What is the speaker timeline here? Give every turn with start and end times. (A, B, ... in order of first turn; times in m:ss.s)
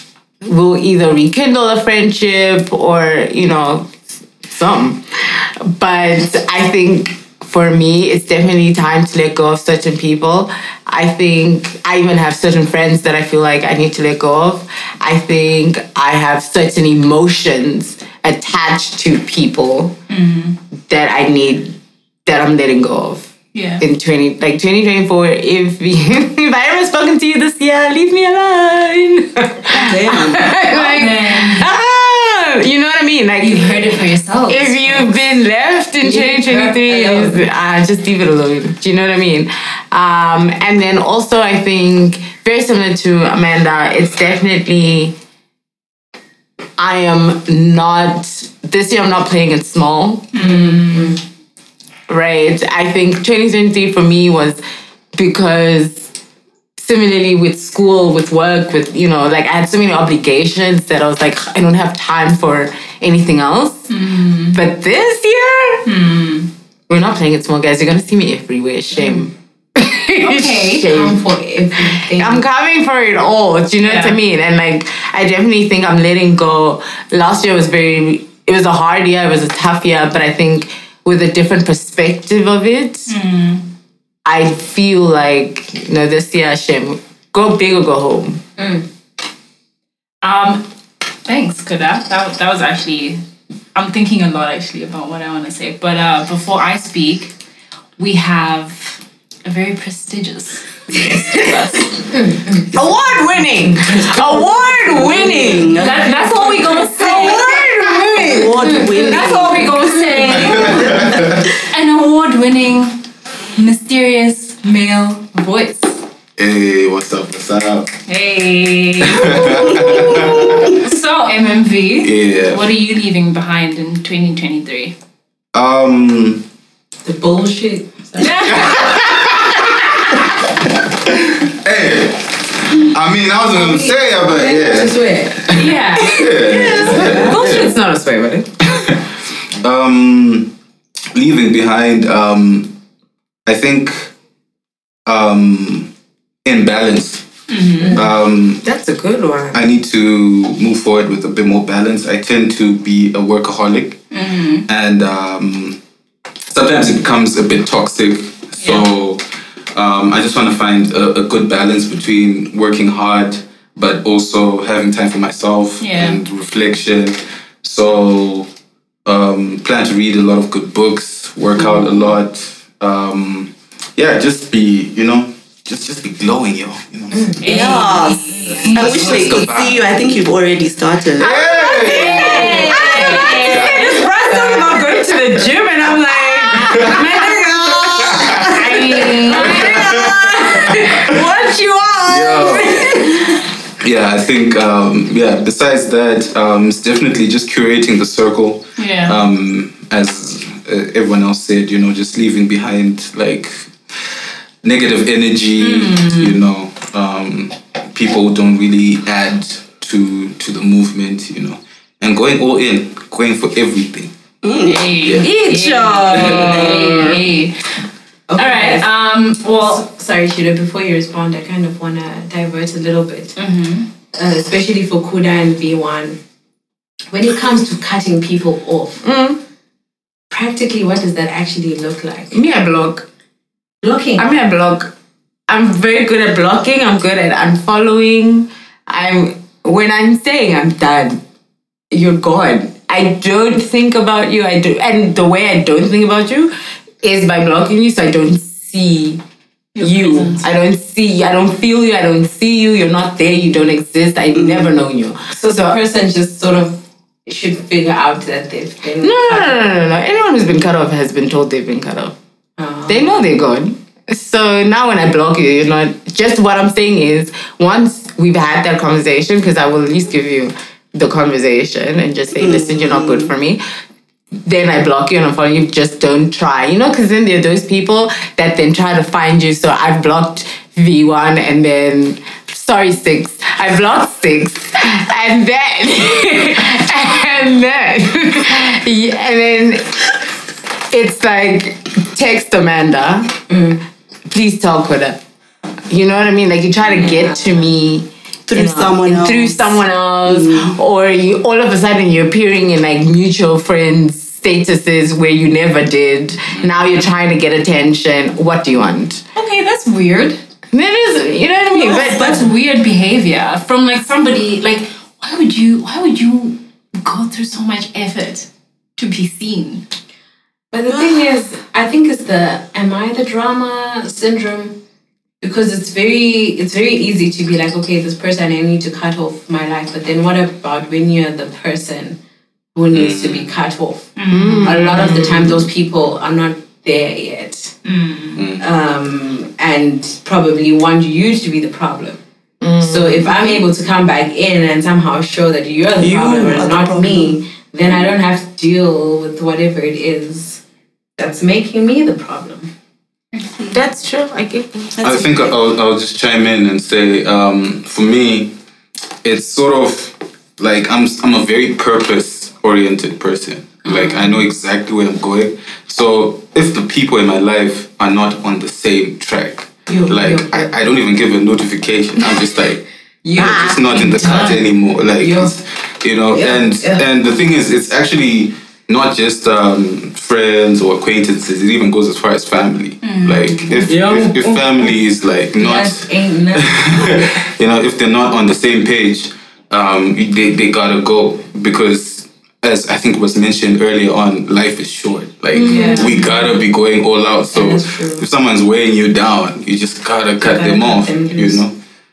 0:00.4-0:20.0 A
0:20.1-0:20.6 B
0:20.9-0:34.0 A
0:23.5-0:23.8 B
0:29.7-0:30.5 C
0:30.7-0:31.7 B
0:33.4-0:35.3 B
0:34.5-0:45.2 A
0:36.0-0:37.4 D
0:46.8-0:50.6 A
0:50.3-0:51.2 B
0:50.4-0:51.2 D
0:52.1-0:54.6 A
0:55.2-0:56.1 A
0:56.8-1:03.9 A
1:03.9-1:04.6 B
1:04.5-1:05.9 A
1:05.8-1:06.5 B
1:06.9-1:11.2 A
1:10.2-1:10.9 B
1:10.9-1:12.4 D
1:11.8-1:23.1 A
1:13.8-1:14.2 B
1:23.1-1:23.7 B
1:24.2-1:28.4 A
1:28.6-1:28.9 D
1:30.2-1:30.7 B
1:31.3-1:33.2 B
1:33.8-1:37.3 B
1:38.0-1:41.6 B
1:41.1-1:41.8 A
1:42.1-1:42.6 D
1:42.7-1:48.6 A
1:43.9-1:44.4 D
1:44.9-1:47.5 C
1:45.7-1:47.7 B
1:48.1-1:49.8 C
1:48.6-1:49.2 D
1:48.9-1:53.0 B
1:49.8-1:51.1 D
1:50.5-1:51.5 E
1:53.6-1:54.7 B
1:54.6-1:56.0 D
1:56.4-1:57.9 E
1:58.1-2:05.0 B
1:59.0-2:00.9 E
2:02.0-2:02.6 E
2:05.5-2:06.4 E
2:07.0-2:08.8 D
2:08.2-2:09.4 B
2:08.4-2:09.6 E
2:08.9-2:09.2 A
2:11.1-2:17.8 E
2:13.5-2:15.5 D
2:15.5-2:17.7 B
2:16.3-2:18.5 A
2:18.7-2:19.0 E
2:19.6-2:20.6 E
2:21.1-2:22.8 E
2:23.4-2:24.1 E
2:25.1-2:25.9 E
2:26.4-2:27.3 E
2:27.5-2:28.0 B
2:27.8-2:28.1 D
2:27.9-2:28.6 E
2:28.6-2:29.6 A
2:29.5-2:34.0 E
2:34.1-2:34.7 B
2:34.6-2:35.8 E
2:36.5-2:48.5 E
2:38.6-2:38.9 B
2:45.8-2:46.2 B
2:49.0-2:57.8 E
2:57.4-2:59.3 B
2:57.4-3:01.3 C
2:57.6-2:58.2 D
2:58.5-2:59.8 E
3:01.2-3:03.9 E
3:01.3-3:04.2 B
3:01.5-3:13.3 A
3:01.9-3:03.7 D
3:04.3-3:04.8 D
3:06.6-3:07.2 E
3:08.0-3:11.1 E
3:08.4-3:10.4 B
3:12.0-3:13.2 E
3:13.8-3:23.8 E
3:18.8-3:19.2 B
3:24.6-3:34.1 E
3:25.6-3:26.4 B
3:34.4-3:34.9 C
3:34.6-3:37.8 B
3:35.0-3:35.3 E
3:35.2-3:37.2 A
3:36.2-3:36.5 E
3:38.3-3:38.9 D
3:38.4-3:39.8 B
3:39.6-3:43.4 D
3:43.4-3:43.9 B
3:44.1-3:46.2 D
3:47.1-3:49.0 D
3:49.0-3:49.4 A
3:50.3-3:52.4 D
3:52.3-3:53.0 A
3:53.8-3:54.2 D
3:54.2-3:54.9 A
3:55.5-4:01.2 A
4:01.9-4:09.2 A
4:09.8-4:10.5 B
4:09.8-4:15.8 A
4:14.4-4:14.7 C
4:15.3-4:19.6 D
4:19.0-4:22.2 A
4:22.6-4:23.1 D
4:22.9-4:33.6 A
4:32.4-4:33.3 C
4:34.5-4:50.1 A
4:50.9-4:53.4 A
4:53.5-4:53.8 D
4:54.3-4:55.2 A
4:55.9-5:09.2 A
4:56.9-4:57.5 D
4:58.5-5:00.7 C
5:06.5-5:06.8 E
5:09.4-5:10.4 B
5:10.7-5:12.4 A
5:11.7-5:19.8 B
5:20.7-5:24.8 D
5:20.8-5:21.3 C
5:25.4-5:32.2 D
5:32.8-5:37.7 D
5:32.9-5:33.5 E
5:34.2-5:34.8 B
5:34.3-5:35.5 A
5:37.8-5:38.4 B
5:38.4-5:38.7 E
5:38.6-5:42.2 D
5:42.6-5:43.6 A
5:42.8-5:50.6 D
5:46.0-5:47.4 C
5:51.2-5:52.7 D
5:53.3-5:53.8 B
5:53.7-5:55.0 A
5:55.0-5:55.4 C
5:55.0-5:58.5 E
5:59.2-6:41.8 E
6:03.9-6:04.4 B
6:09.9-6:10.9 D
6:13.3-6:14.6 A
6:14.0-6:14.6 D
6:15.2-6:15.5 D
6:16.3-6:17.0 D
6:23.0-6:23.9 B
6:23.8-6:24.6 A
6:25.6-6:27.3 D
6:35.5-6:36.2 A
6:35.6-6:36.5 D
6:37.5-6:38.3 D
6:40.4-6:41.6 D